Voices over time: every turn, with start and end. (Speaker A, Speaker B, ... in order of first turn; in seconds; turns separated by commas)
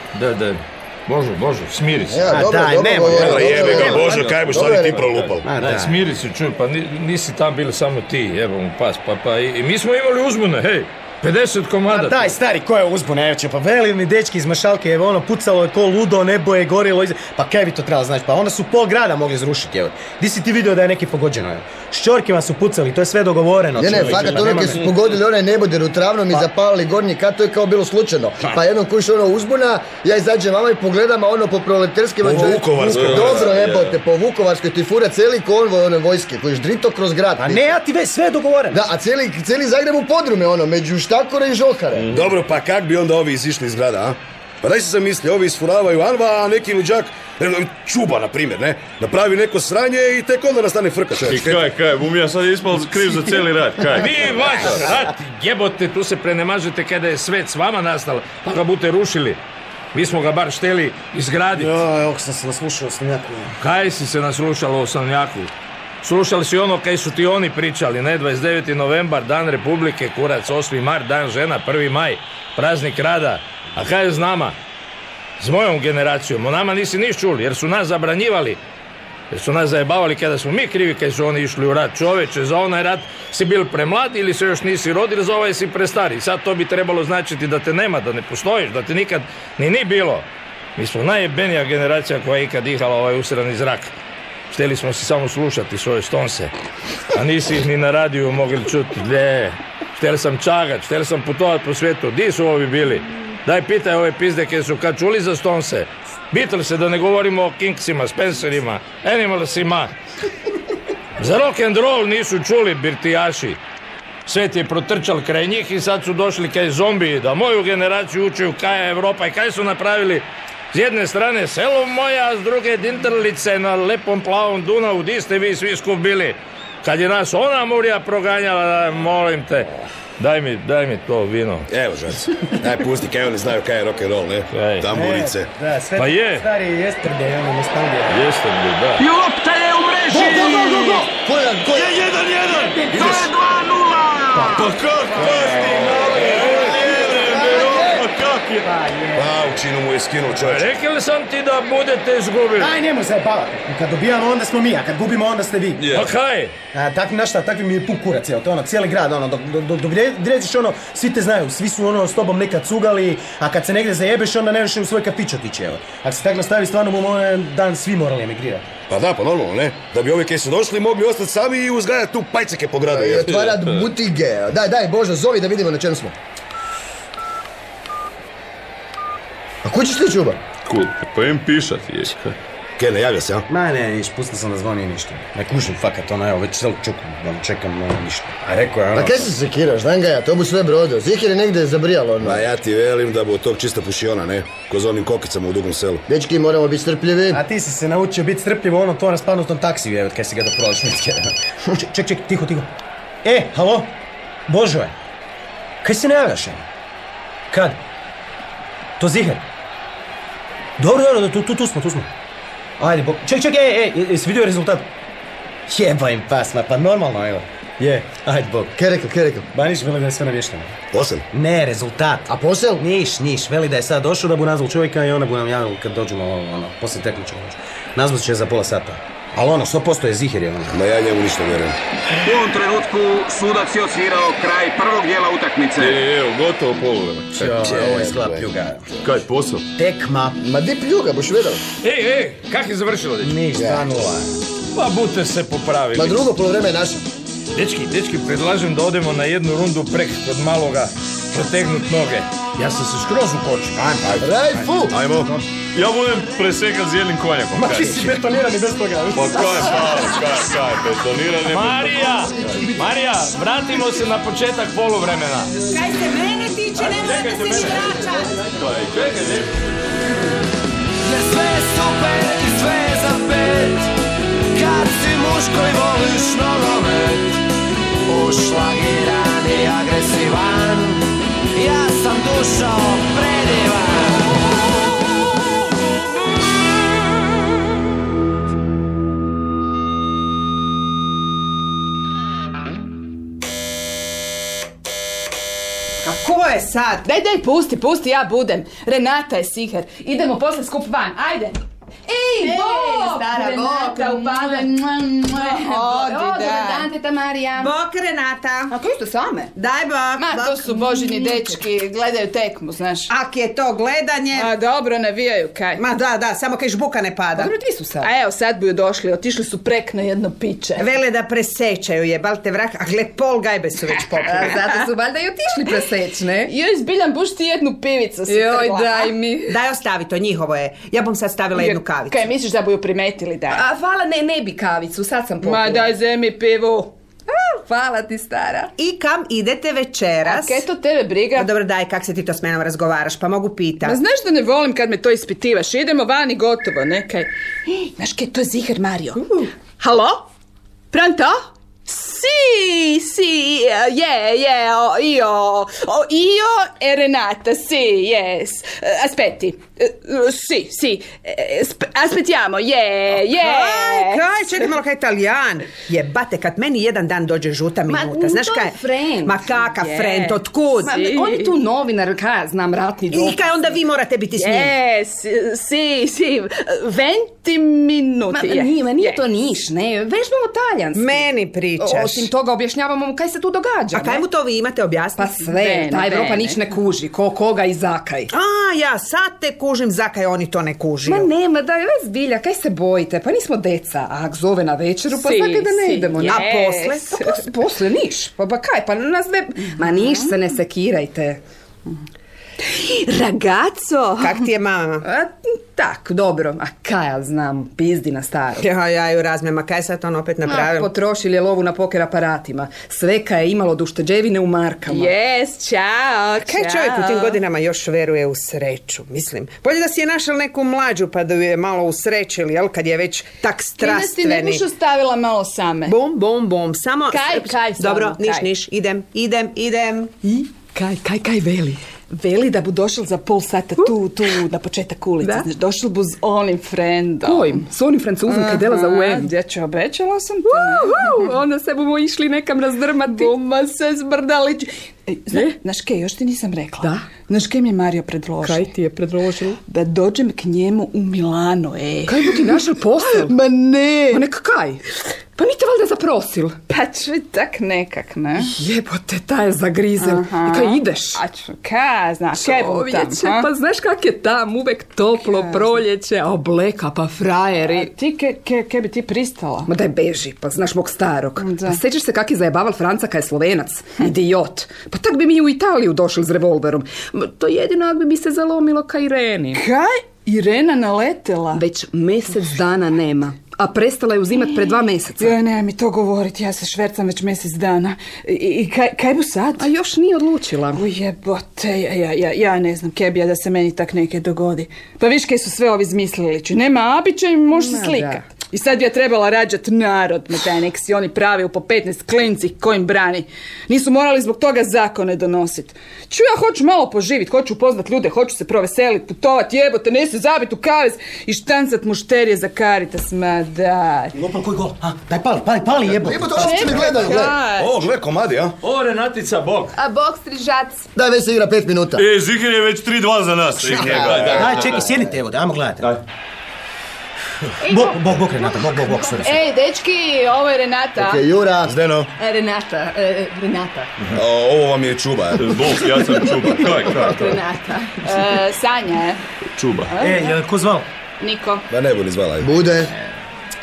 Speaker A: 0.1-2.3, Speaker B: 2.1-5.0, Speaker C: 2.3-4.2, Speaker D: 3.1-5.5, Speaker E: 3.1-5.3, Speaker C: 5.4-6.0, Speaker A: 5.6-12.3, Speaker C: 11.9-24.9, Speaker B: 23.8-37.7, Speaker E: 23.9-24.3, Speaker D: 32.2-33.7, Speaker E: 32.9-33.9, Speaker C: 37.4-38.9, Speaker B: 38.7-42.1, Speaker D: 42.1-51.7, Speaker E: 51.2-54.9, Speaker A: 53.9-59.4, Speaker A: 59.9-61.7, Speaker C: 61.5-63.5, Speaker A: 63.6-65.5, Speaker A: 66.0-74.5, Speaker A: 75.4-78.6, Speaker A: 79.3-93.9, Speaker A: 94.5-96.5, Speaker A: 97.1-109.9, Speaker A: 111.2-113.6, Speaker A: 114.2-131.7, Speaker D: 131.7-135.5, Speaker A: 134.5-134.9, Speaker C: 134.9-138.2, Speaker A: 136.0-136.5, Speaker A: 138.1-139.1, Speaker F: 139.0-140.9, Speaker C: 140.1-141.1, Speaker B: 140.2-142.0, Speaker E: 140.3-140.6, Speaker E: 141.7-142.9, Speaker C: 142.5-143.3, Speaker F: 142.9-144.8, Speaker C: 144.3-148.0, Speaker E: 144.5-148.7, Speaker D: 145.5-145.8, Speaker C: 148.9-149.2, Speaker D: 149.2-150.7, Speaker A: 150.4-152.7, Speaker C: 152.6-155.8, Speaker E: 155.8-156.1, Speaker A: 155.9-156.5, Speaker C: 156.7-168.7, Speaker D: 168.9-173.5, Speaker B: 172.9-176.1, Speaker E: 173.4-173.8, Speaker B: 179.6-180.4, Speaker E: 180.6-182.3, Speaker D: 182.8-183.4, Speaker C: 183.5-189.3, Speaker B: 188.9-192.4, Speaker D: 192.2-196.0, Speaker B: 196.1-197.4, Speaker C: 197.3-202.7, Speaker C: 203.2-203.9, Speaker C: 204.5-204.9, Speaker C: 205.8-206.6, Speaker C: 207.5-207.8, Speaker C: 209.0-209.4, Speaker C: 210.8-212.1, Speaker C: 212.8-214.9, Speaker C: 215.7-218.8, Speaker B: 218.8-219.4, Speaker C: 219.5-230.8, Speaker D: 220.9-221.2, Speaker B: 222.3-222.8, Speaker D: 230.7-231.8, Speaker F: 232.2-236.1, Speaker E: 235.8-237.6, Speaker C: 237.3-238.8, Speaker D: 237.6-238.4, Speaker E: 239.0-239.6, Speaker C: 239.8-240.4, Speaker B: 240.4-241.6, Speaker A: 241.8-243.4, Speaker C: 243.2-244.4, Speaker B: 243.5-243.8, Speaker A: 244.7-246.2, Speaker B: 245.9-247.0, Speaker A: 247.5-253.8, Speaker C: 253.8-255.3, Speaker B: 254.2-254.9, Speaker D: 254.9-255.3, Speaker E: 255.7-258.2, Speaker C: 257.5-259.9, Speaker E: 259.1-262.6, Speaker A: 261.4-265.5, Speaker G: 265.7-268.3, Speaker A: 266.8-267.9, Speaker E: 268.5-269.4, Speaker A: 268.9-269.5, Speaker H: 271.1-273.9, Speaker H: 274.6-277.4, Speaker H: 278.1-281.0, Speaker H: 281.6-284.0, Speaker G: 296.0-297.0, Speaker I: 297.0-301.5, Speaker J: 302.3-307.7, Speaker I: 302.3-306.7, Speaker G: 302.4-304.1, Speaker G: 305.5-306.9, Speaker G: 307.5-308.7, Speaker J: 308.7-309.5, Speaker G: 309.5-311.5, Speaker I: 310.2-313.1, Speaker J: 310.9-311.2, Speaker G: 313.1-314.5, Speaker I: 314.3-315.9, Speaker G: 315.8-317.5, Speaker J: 317.4-318.1, Speaker I: 318.0-320.9, Speaker G: 320.8-324.8, Speaker J: 324.2-326.5, Speaker I: 326.4-329.1, Speaker J: 328.3-329.5, Speaker G: 329.5-332.3, Speaker I: 331.5-333.7, Speaker J: 333.5-335.9, Speaker I: 335.4-336.9, Speaker J: 337.3-338.7, Speaker G: 338.8-340.6, Speaker I: 340.2-341.5, Speaker G: 341.3-344.0, Speaker I: 343.8-349.4, Speaker I: 350.9-351.4, Speaker I: 351.9-364.7, Speaker G: 363.2-371.0, Speaker J: 367.9-369.4, Speaker I: 369.7-371.6, Speaker J: 370.8-373.7, Speaker G: 373.1-374.7, Speaker I: 374.4-379.2, Speaker J: 378.3-381.3, Speaker G: 380.9-382.3, Speaker J: 381.8-384.2, Speaker G: 383.9-386.3, Speaker J: 385.2-388.3, Speaker I: 385.4-386.6, Speaker G: 388.3-391.3, Speaker J: 391.1-401.4, Speaker I: 395.1-397.2, Speaker G: 396.2-397.2, Speaker J: 402.7-404.4, Speaker G: 404.2-405.0, Speaker J: 405.0-408.6, Speaker G: 408.6-410.9, Speaker J: 410.4-415.2, Speaker I: 414.9-417.4, Speaker G: 416.4-424.7, Speaker I: 423.8-425.9, Speaker G: 425.9-430.1, Speaker I: 427.1-428.5, Speaker J: 427.5-428.2, Speaker J: 430.2-431.8, Speaker I: 432.1-437.7, Speaker J: 433.8-434.4, Speaker J: 435.2-435.5, Speaker J: 437.2-439.3, Speaker I: 438.2-441.4, Speaker J: 440.4-443.5, Speaker I: 443.0-448.7, Speaker J: 446.8-447.1, Speaker J: 448.4-449.6, Speaker I: 449.7-454.3, Speaker J: 452.1-454.8, Speaker J: 455.4-456.6, Speaker I: 456.7-458.5, Speaker J: 458.4-461.2, Speaker I: 460.0-463.5, Speaker J: 462.3-467.9, Speaker I: 465.2-465.8, Speaker I: 467.6-469.7, Speaker J: 469.7-479.6, Speaker I: 471.4-471.8, Speaker I: 479.5-481.6, Speaker J: 481.5-485.4, Speaker I: 485.2-489.7, Speaker J: 489.6-490.8, Speaker I: 490.7-514.1, Speaker J: 497.5-498.2, Speaker C: 514.1-516.9, Speaker B: 516.0-517.4, Speaker I: 516.4-517.9, Speaker D: 517.1-518.5, Speaker E: 518.6-519.7, Speaker J: 519.8-520.8, Speaker B: 521.0-522.0, Speaker E: 522.0-525.0, Speaker B: 523.7-524.7, Speaker C: 523.7-525.9, Speaker D: 523.8-524.3, Speaker J: 527.6-529.1, Speaker C: 527.6-529.4, Speaker I: 529.2-531.2, Speaker B: 531.0-531.7, Speaker D: 531.6-532.1, Speaker J: 532.2-533.9, Speaker D: 534.1-535.6, Speaker E: 535.4-537.4, Speaker J: 536.7-538.2, Speaker I: 538.0-539.2, Speaker E: 539.5-539.9, Speaker I: 539.8-540.4, Speaker C: 540.0-540.9, Speaker I: 541.2-541.6, Speaker D: 541.7-542.5, Speaker B: 542.4-542.9